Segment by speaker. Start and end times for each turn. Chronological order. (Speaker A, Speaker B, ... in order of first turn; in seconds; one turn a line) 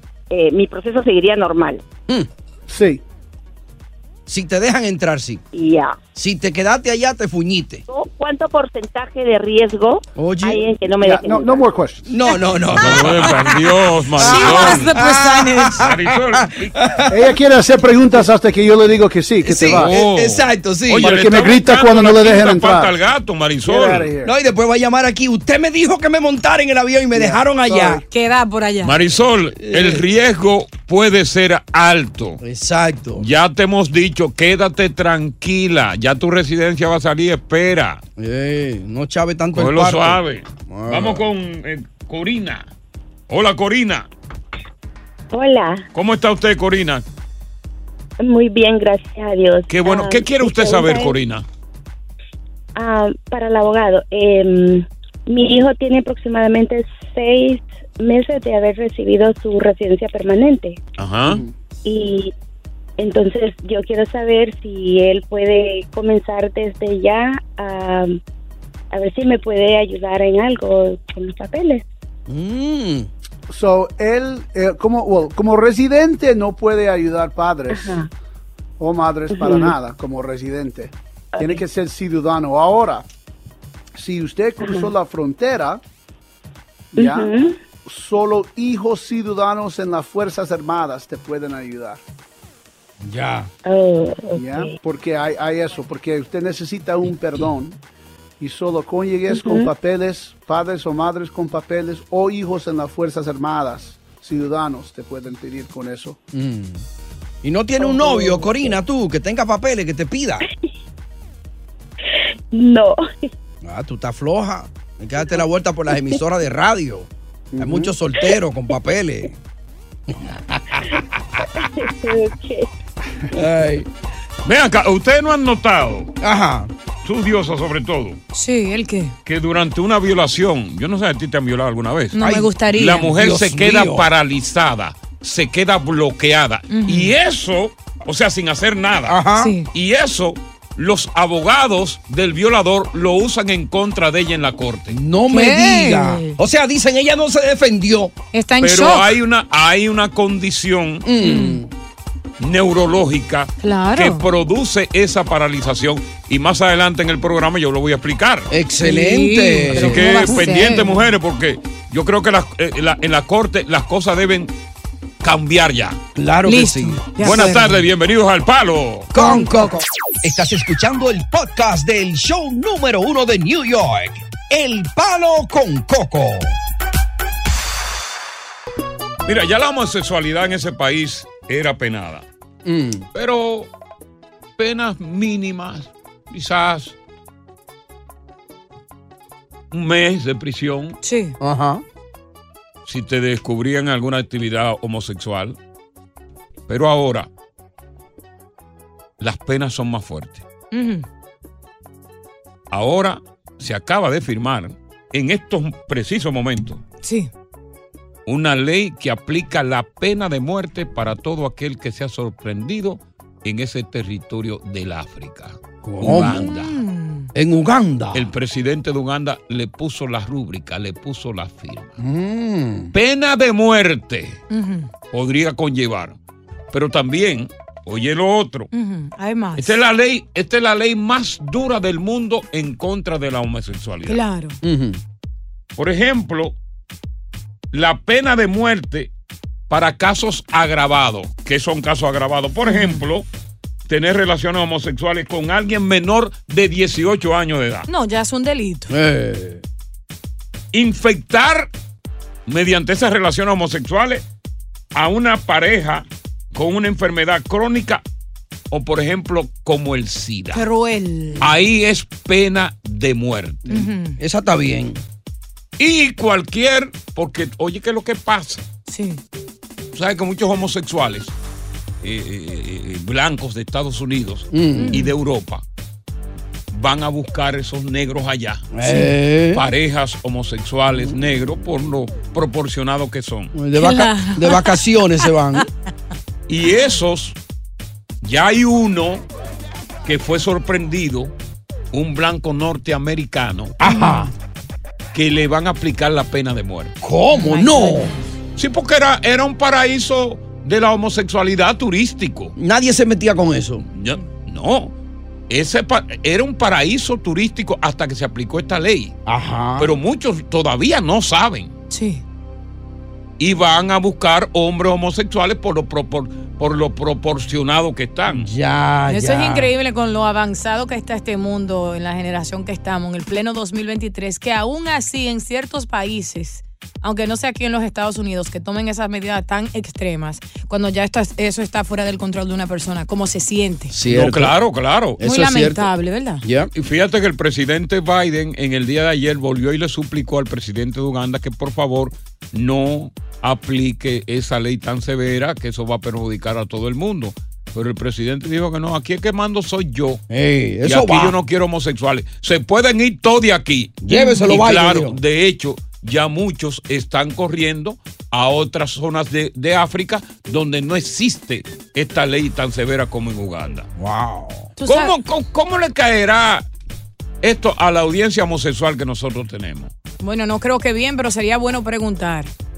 Speaker A: 0.3-1.8
Speaker B: 2.7-3.0
Speaker C: 4.3-5.4
Speaker A: 5.5-6.0
Speaker C: 6.1-7.8
Speaker A: 7.9-11.6
Speaker C: 10.2-10.6
Speaker B: 11.0-12.1
Speaker C: 12.1-13.5
Speaker D: 12.8-14.9
Speaker E: 14.2-15.8
Speaker C: 14.3-17.3
Speaker D: 15.8-17.0
Speaker B: 17.1-19.9
Speaker C: 19.4-21.1
Speaker D: 19.7-24.1
Speaker B: 21.0-22.9
Speaker B: 23.6-24.3
Speaker C: 24.2-28.0
Speaker B: 27.1-28.0
Speaker E: 28.1-28.9
Speaker D: 28.8-32.4
Speaker C: 29.6-30.0
Speaker C: 32.4-33.2
Speaker D: 33.1-38.0
Speaker C: 38.2-41.2
Speaker D: 39.5-42.7
Speaker D: 43.3-44.1
Speaker F: 45.3-45.8
Speaker D: 45.9-47.0
Speaker F: 48.2-51.1
Speaker D: 49.7-51.4
Speaker F: 52.8-60.8
Speaker D: 61.0-61.4
Speaker F: 61.8-62.3
Speaker F: 63.0-68.2
Speaker F: 68.9-71.8
Speaker C: 72.3-73.1
Speaker B: 73.5-78.0
Speaker F: 77.7-78.1
Speaker B: 78.8-83.0
Speaker F: 79.3-79.7
Speaker F: 81.3-81.6
Speaker B: 84.0-85.8
Speaker F: 84.6-84.9
Speaker B: 86.9-87.3
Speaker F: 87.0-87.5
Speaker B: 87.8-92.0
Speaker C: 93.0-93.5
Speaker F: 93.7-94.7
Speaker B: 94.3-97.8
Speaker B: 98.4-106.2
Speaker F: 99.3-99.7
Speaker C: 106.3-106.8
Speaker C: 107.4-110.4
Speaker B: 107.8-108.5
Speaker F: 112.5-113.3
Speaker C: 113.6-119.3
Speaker B: 117.5-117.9
Speaker C: 120.1-120.8
Speaker F: 120.9-122.7
Speaker C: 123.3-123.9
Speaker D: 124.4-126.1
Speaker C: 126.2-126.7
Speaker D: 127.0-128.2
Speaker E: 128.3-129.1
Speaker D: 129.2-139.2
Speaker E: 132.1-133.1
Speaker C: 132.2-134.1
Speaker E: 136.7-137.1
Speaker C: 139.1-139.5
Speaker E: 139.3-139.7
Speaker D: 139.7-144.9
Speaker C: 144.9-148.1
Speaker E: 145.3-146.3
Speaker E: 148.3-149.1
Speaker D: 148.6-151.1
Speaker C: 151.0-151.7
Speaker E: 151.2-151.6
Speaker D: 152.4-158.5
Speaker E: 153.6-154.2
Speaker C: 158.5-160.3
Speaker E: 158.8-161.1
Speaker D: 159.7-164.5
Speaker D: 165.2-166.0
Speaker C: 166.1-167.0
Speaker E: 166.4-167.8
Speaker D: 167.2-169.1
Speaker C: 169.1-176.6
Speaker E: 169.1-169.8
Speaker D: 179.2-182.2
Speaker C: 182.6-183.1
Speaker D: 183.1-183.7
Speaker D: 184.6-186.9
Speaker D: 189.7-191.0
Speaker E: 191.0-191.3
Speaker C: 191.4-191.8
Speaker D: 192.8-195.6
Speaker D: 196.7-197.3
Speaker D: 199.2-200.4
Speaker E: 200.7-201.0
Speaker D: 202.7-206.8
Speaker E: 207.0-207.3
Speaker D: 208.2-216.8
Speaker C: 215.8-216.4
Speaker E: 216.1-217.3
Speaker C: 217.3-218.3
Speaker D: 218.1-222.0
Speaker C: 222.0-222.9
Speaker D: 222.9-224.4
Speaker E: 224.5-224.9
Speaker D: 225.1-226.2
Speaker D: 226.7-228.7
Speaker E: 228.7-229.8
Speaker D: 229.6-234.2
Speaker E: 234.1-234.6
Speaker C: 234.6-235.0
Speaker D: 235.8-236.6
Speaker D: 237.7-239.1
Speaker D: 239.7-243.3
Speaker E: 242.6-243.0
Speaker D: 243.9-247.9
Speaker E: 247.9-248.9
Speaker C: 248.9-249.6
Speaker D: 250.7-251.7
Speaker D: 252.5-254.2
Speaker D: 254.9-258.0
Speaker D: 258.7-260.6
Speaker E: 260.5-261.5
Speaker D: 261.4-263.9
Speaker E: 263.7-264.2
Speaker C: 264.2-265.0
Speaker D: 265.8-268.6
Speaker E: 268.9-269.2
Speaker D: 269.9-271.3
Speaker D: 272.0-275.6
Speaker C: 274.5-275.0
Speaker E: 274.8-275.1
Speaker D: 276.7-278.7
Speaker C: 278.7-279.6
Speaker E: 278.8-279.1
Speaker D: 279.5-283.5
Speaker C: 280.9-281.5
Speaker C: 283.5-285.6
Speaker E: 283.7-285.6
Speaker D: 286.5-287.4
Speaker D: 288.2-289.2
Speaker D: 290.0-291.3
Speaker D: 291.9-293.8
Speaker C: 293.8-294.3
Speaker E: 293.8-294.3
Speaker D: 295.1-297.0
Speaker C: 297.0-298.1
Speaker E: 297.3-298.2
Speaker D: 298.6-302.5
Speaker C: 302.6-303.8
Speaker D: 303.9-304.9
Speaker D: 305.5-309.2
Speaker C: 309.2-309.9
Speaker D: 309.8-311.7
Speaker E: 311.9-312.2
Speaker D: 313.4-318.5
Speaker C: 318.3-319.7
Speaker E: 319.1-333.9
Speaker C: 333.9-334.5
Speaker D: 334.1-335.2
Speaker C: 335.2-335.9
Speaker E: 335.2-336.4
Speaker C: 336.4-336.7
Speaker D: 336.7-350.2
Speaker C: 350.3-351.4
Speaker D: 350.8-363.9
Speaker C: 354.0-355.2
Speaker E: 354.1-354.5
Speaker C: 364.0-364.7
Speaker E: 364.8-365.1
Speaker D: 364.8-366.6
Speaker D: 367.4-369.9
Speaker E: 370.2-372.5